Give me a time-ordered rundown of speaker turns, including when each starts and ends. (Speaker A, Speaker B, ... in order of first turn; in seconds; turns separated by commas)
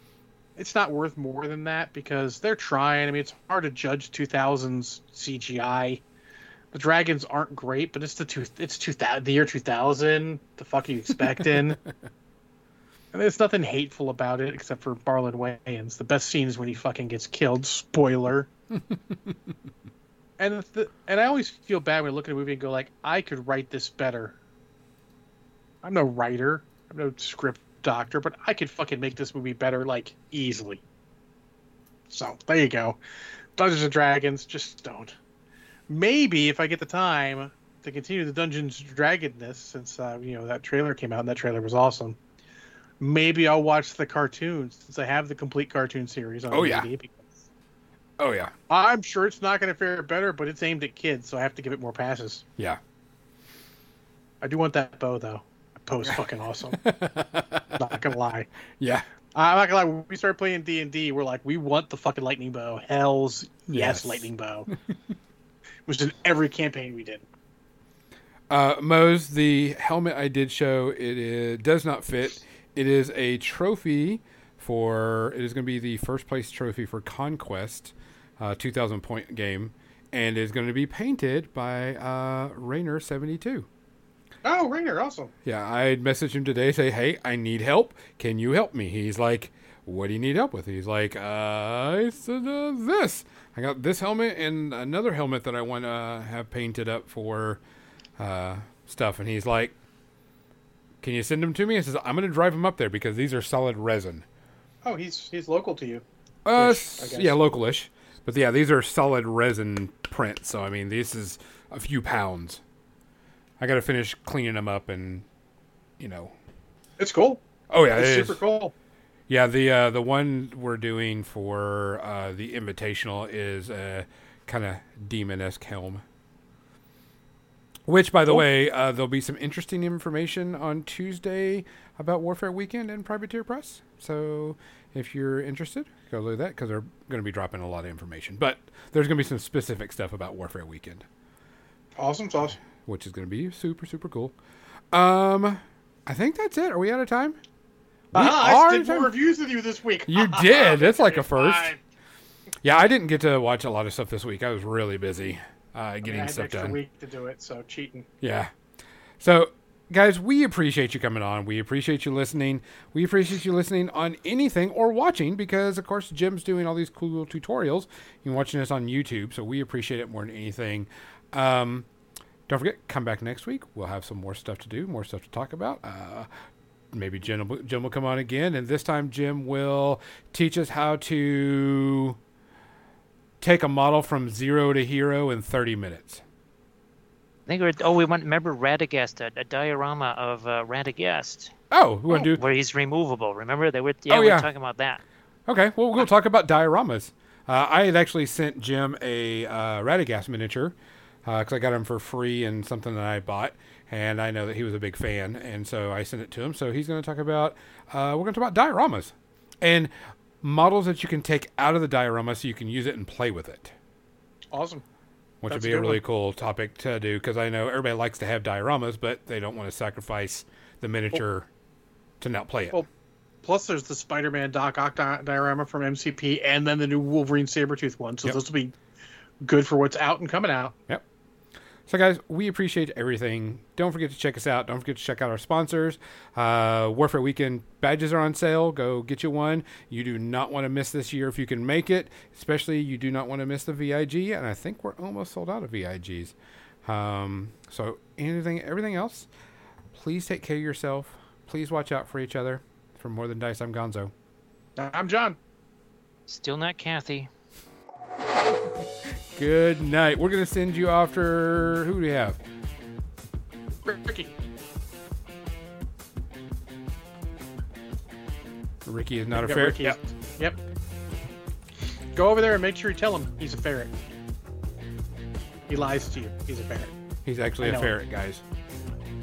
Speaker A: 0.6-6.0, Speaker A: 6.7-11.8, Speaker A: 13.1-18.5, Speaker B: 18.7-19.4, Speaker A: 20.4-24.4, Speaker A: 25.8-30.8, Speaker A: 32.1-33.0, Speaker A: 33.6-35.2, Speaker A: 35.9-42.2, Speaker A: 43.0-47.4, Speaker B: 46.5-46.9, Speaker B: 48.2-48.5, Speaker A: 48.7-52.4, Speaker A: 54.4-56.8, Speaker B: 56.7-57.8, Speaker A: 57.8-58.5, Speaker B: 58.8-59.0, Speaker A: 59.3-64.7, Speaker B: 63.7-64.3, Speaker A: 65.9-67.2, Speaker B: 68.5-83.7, Speaker A: 84.4-85.3, Speaker B: 85.4-97.6, Speaker B: 98.2-99.7, Speaker B: 101.0-104.2, Speaker A: 104.8-106.0, Speaker B: 106.5-112.6, Speaker A: 106.5-107.4, Speaker B: 113.6-115.2, Speaker B: 116.0-116.3, Speaker A: 117.0-117.4, Speaker B: 117.7-118.4, Speaker A: 117.9-118.7, Speaker B: 119.3-126.0, Speaker B: 127.9-141.1, Speaker A: 141.9-142.6, Speaker B: 142.8-144.3, Speaker B: 144.9-147.4, Speaker B: 148.1-149.1, Speaker A: 148.1-151.8, Speaker B: 150.1-151.7, Speaker B: 152.6-156.8, Speaker A: 156.0-158.1, Speaker B: 158.2-158.5, Speaker B: 159.2-171.9, Speaker B: 172.5-176.3, Speaker B: 176.9-182.2, Speaker B: 183.4-186.2, Speaker C: 187.5-191.5, Speaker B: 191.7-192.4, Speaker C: 192.1-195.0, Speaker B: 194.1-194.5, Speaker B: 195.5-209.9, Speaker B: 210.4-213.7, Speaker A: 214.5-214.8, Speaker B: 215.4-221.5, Speaker A: 215.5-216.0, Speaker B: 222.2-222.8, Speaker A: 223.4-228.7, Speaker A: 229.4-230.7, Speaker B: 231.9-249.3, Speaker B: 249.9-254.1, Speaker A: 254.8-255.4, Speaker C: 256.3-257.3, Speaker B: 259.3-262.4, Speaker A: 263.8-264.3, Speaker B: 268.8-270.0, Speaker A: 269.4-270.6, Speaker A: 272.1-273.9, Speaker A: 275.7-276.9, Speaker B: 277.2-278.4, Speaker A: 277.6-277.9